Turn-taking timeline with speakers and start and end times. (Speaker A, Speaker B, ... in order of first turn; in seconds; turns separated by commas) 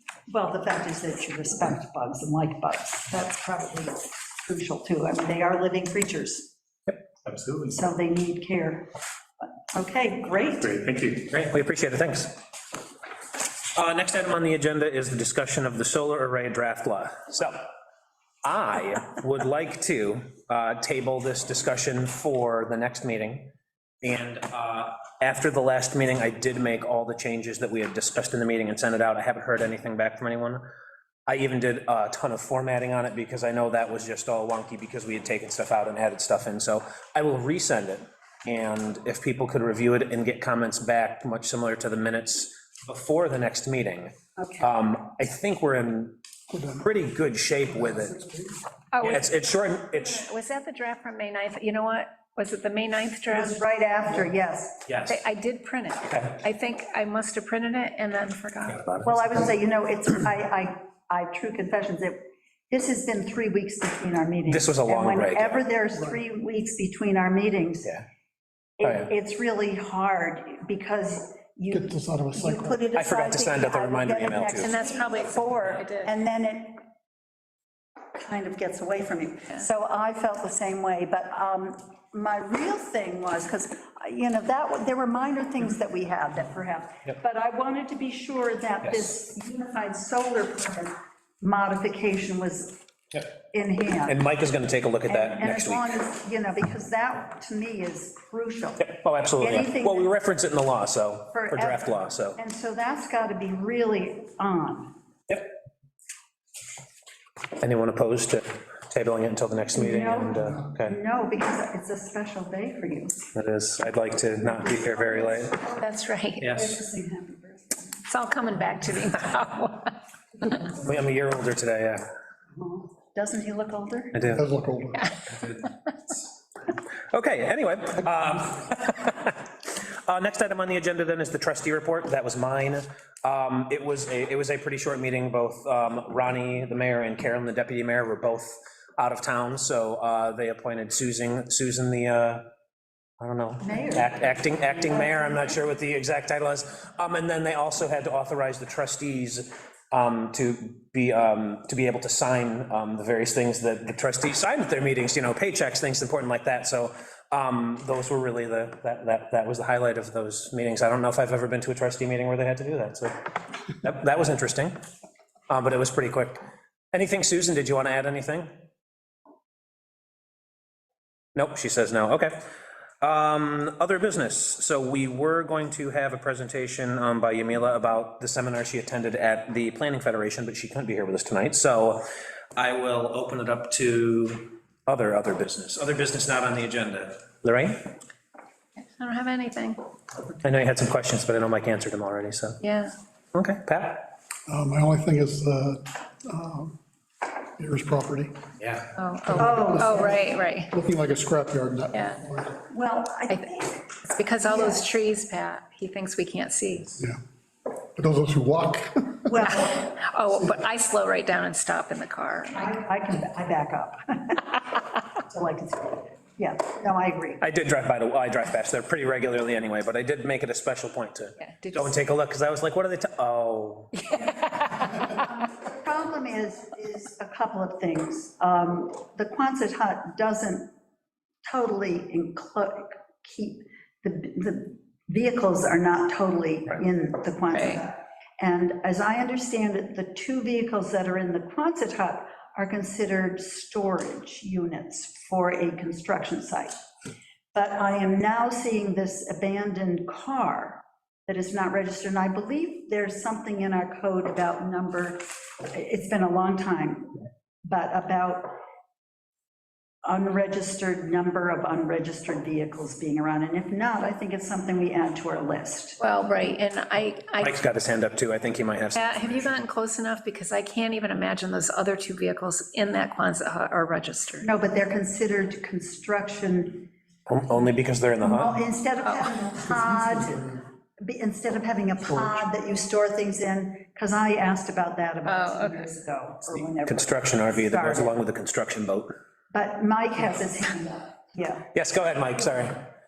Speaker A: 0.3-6.5, Speaker A: 7.7-8.9, Speaker A: 9.4-10.9, Speaker B: 11.2-12.4, Speaker B: 13.8-17.7, Speaker B: 18.4-23.5, Speaker B: 24.0-30.6, Speaker B: 31.3-46.2, Speaker A: 44.4-44.7, Speaker C: 46.5-46.9, Speaker B: 46.8-48.3, Speaker C: 48.0-48.6, Speaker D: 48.9-53.6, Speaker B: 49.0-50.3, Speaker A: 53.3-54.9, Speaker B: 54.9-55.2, Speaker D: 55.1-59.1, Speaker B: 56.1-56.4, Speaker A: 59.0-67.9, Speaker B: 64.5-65.6, Speaker A: 68.8-76.8, Speaker C: 71.7-72.8, Speaker B: 73.0-74.8, Speaker D: 74.6-76.1, Speaker A: 78.2-92.8, Speaker A: 93.5-94.2, Speaker B: 94.1-96.0, Speaker A: 95.1-98.9, Speaker B: 98.8-102.4, Speaker A: 99.4-100.1, Speaker A: 101.3-105.0, Speaker B: 107.6-111.0, Speaker A: 109.8-113.2, Speaker B: 113.3-115.7, Speaker A: 114.6-115.8, Speaker D: 115.8-116.6, Speaker B: 116.4-116.8, Speaker A: 116.5-118.0, Speaker D: 118.1-120.0, Speaker B: 120.6-122.1, Speaker A: 122.6-124.2, Speaker B: 124.1-124.4, Speaker C: 124.3-125.1, Speaker B: 127.1-142.4, Speaker B: 143.2-163.3, Speaker A: 143.6-145.1, Speaker B: 163.8-164.8, Speaker B: 165.5-166.4, Speaker B: 166.9-168.5, Speaker B: 171.3-172.4, Speaker B: 173.0-182.0, Speaker B: 182.6-187.9, Speaker D: 188.8-189.8, Speaker B: 190.4-192.6, Speaker D: 192.6-192.9, Speaker B: 193.3-194.1, Speaker C: 194.5-196.8, Speaker C: 197.6-198.4, Speaker B: 198.6-198.9, Speaker D: 199.0-200.7, Speaker C: 199.3-202.6, Speaker A: 199.4-200.2, Speaker D: 201.9-202.2, Speaker A: 202.7-204.8, Speaker D: 204.0-206.9, Speaker C: 207.9-209.4, Speaker A: 209.3-210.0, Speaker D: 209.7-212.8, Speaker A: 212.5-217.4, Speaker B: 217.4-224.1, Speaker D: 221.4-222.0, Speaker D: 224.0-225.2, Speaker A: 225.1-230.7, Speaker A: 231.4-246.7, Speaker D: 237.5-237.8, Speaker A: 247.5-258.6, Speaker A: 260.0-266.0, Speaker D: 266.0-267.6, Speaker B: 267.4-269.1, Speaker D: 269.0-274.5, Speaker A: 274.4-276.9, Speaker B: 277.3-278.6, Speaker A: 278.2-288.1, Speaker B: 282.1-282.4, Speaker D: 285.3-285.9, Speaker B: 286.9-289.1, Speaker A: 289.5-291.7, Speaker B: 291.7-292.9